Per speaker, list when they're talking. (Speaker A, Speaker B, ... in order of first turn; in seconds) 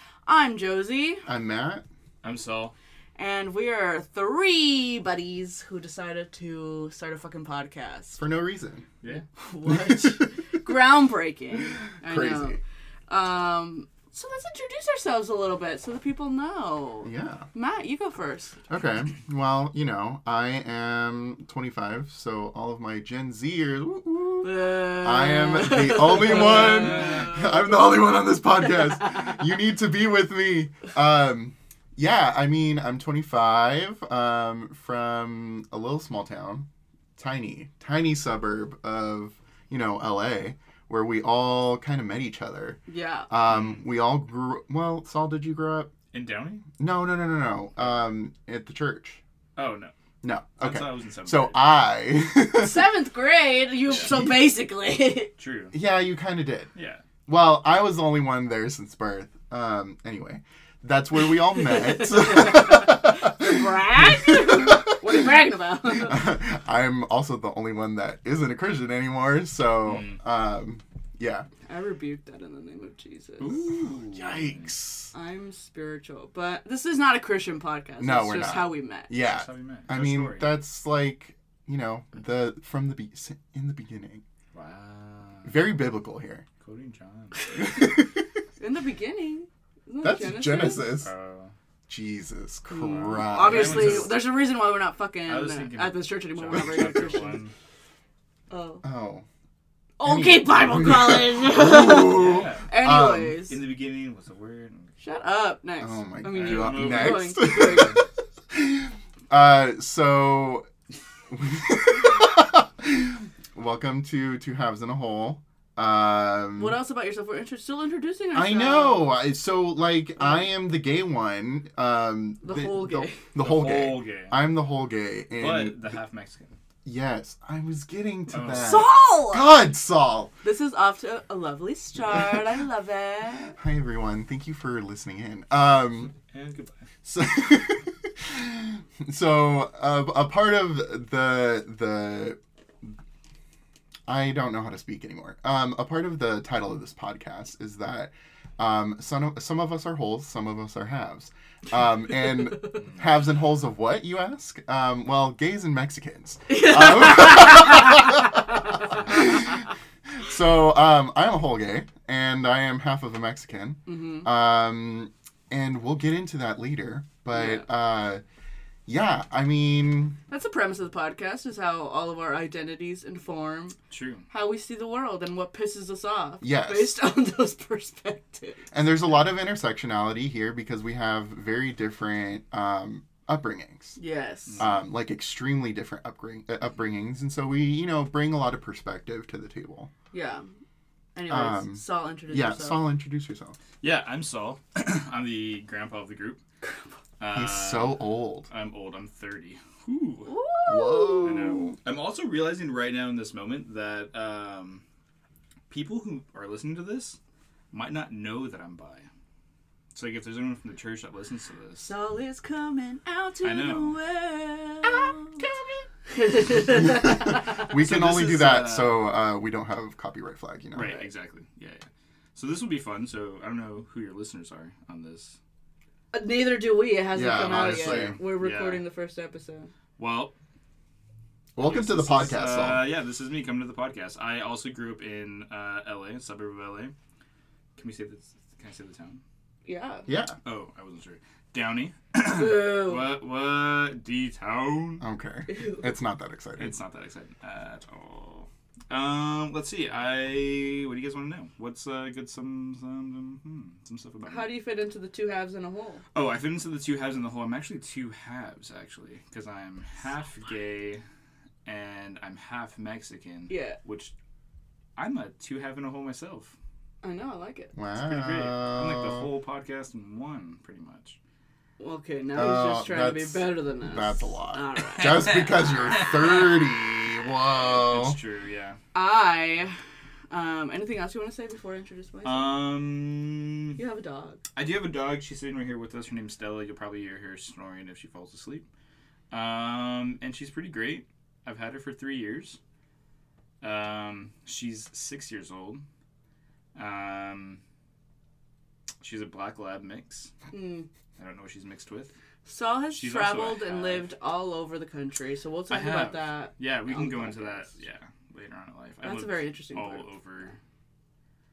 Speaker A: 0.2-1.2, 3.2-8.2, 9.1-18.6, 24.4-27.6, 42.9-43.3, 52.5-55.3, 61.5-66.3, 71.7-73.6, 75.1-79.1, 88.6-91.0, 92.7-97.4, 98.5-98.8, 100.0-103.6, 105.0-108.0, 116.5-119.1, 120.2-120.5, 122.4-123.2, 128.6-129.6, 130.4-133.6, 156.5-158.7, 163.9-164.3, 167.3-167.7, 170.3-173.8, 174.3-178.6, 184.0-184.6, 190.1-190.5, 191.1-192.8, 200.2-201.6, 211.8-215.5, 216.1-217.6, 226.1-229.7, 239.7-240.1, 242.3-243.1, 245.5-245.9, 254.2-256.0, 263.5-263.8, 267.0-267.8, 271.8-276.5, 278.9-279.8, 280.3-282.6, 283.8-284.4, 300.5-300.9, 302.4-307.7, 309.0-310.1
Speaker B: 1.2-1.8, 8.2-8.9, 9.7-10.3, 12.0-12.6, 17.0-17.5, 18.7-45.9, 46.8-49.2, 50.2-52.9, 54.0-54.3, 55.7-56.7, 57.3-65.2, 65.8-71.5, 73.6-75.1, 78.0-84.2, 85.4-86.4, 87.5-88.2, 90.0-91.1, 91.9-94.2, 98.8-99.2, 100.0-103.4, 105.8-108.0, 108.5-110.7, 111.3-116.8, 118.3-125.8, 126.8-130.3, 133.6-136.1, 137.1-142.4, 144.1-168.2, 168.9-170.2, 176.4-176.9, 178.7-184.0, 184.6-189.9, 191.3-193.6, 197.3-198.5, 200.7-201.8, 216.6-220.9, 227.1-228.2, 231.6-232.9, 240.1-240.4, 245.0-246.8, 267.8-269.3, 272.3-278.2
Speaker C: 2.2-2.7, 26.2-27.3, 43.5-43.8, 46.1-46.7, 47.8-48.1, 49.5-49.9, 50.6-51.6, 53.9-54.1, 55.4-55.8, 56.8-57.0, 69.8-70.2, 73.4-74.7, 79.1-80.5, 84.5-85.6, 86.6-87.4, 90.8-91.5, 92.8-94.3, 95.3-97.5, 102.0-102.7, 103.5-104.9, 106.3-108.0, 123.4-124.4, 125.3-126.5, 128.3-128.9, 136.1-136.8, 152.8-153.1, 173.9-174.3, 184.5-184.9, 193.8-196.4, 197.2-200.3, 201.2-204.8, 205.7-207.2, 207.7-209.1, 209.9-211.9, 213.4-214.0, 217.6-219.0, 220.7-225.4, 227.2-228.8, 230.0-230.3, 231.6-236.9, 237.8-239.2, 240.4-245.0, 246.6-254.5, 256.1-261.0, 261.6-264.1, 265.0-266.6, 267.9-271.2, 274.9-276.4, 277.4-278.8, 282.2-283.8, 284.6-288.7, 289.3-292.6, 293.6-295.8, 296.8-297.6, 299.0-300.3, 301.2-302.1, 302.9-304.1, 305.7-310.6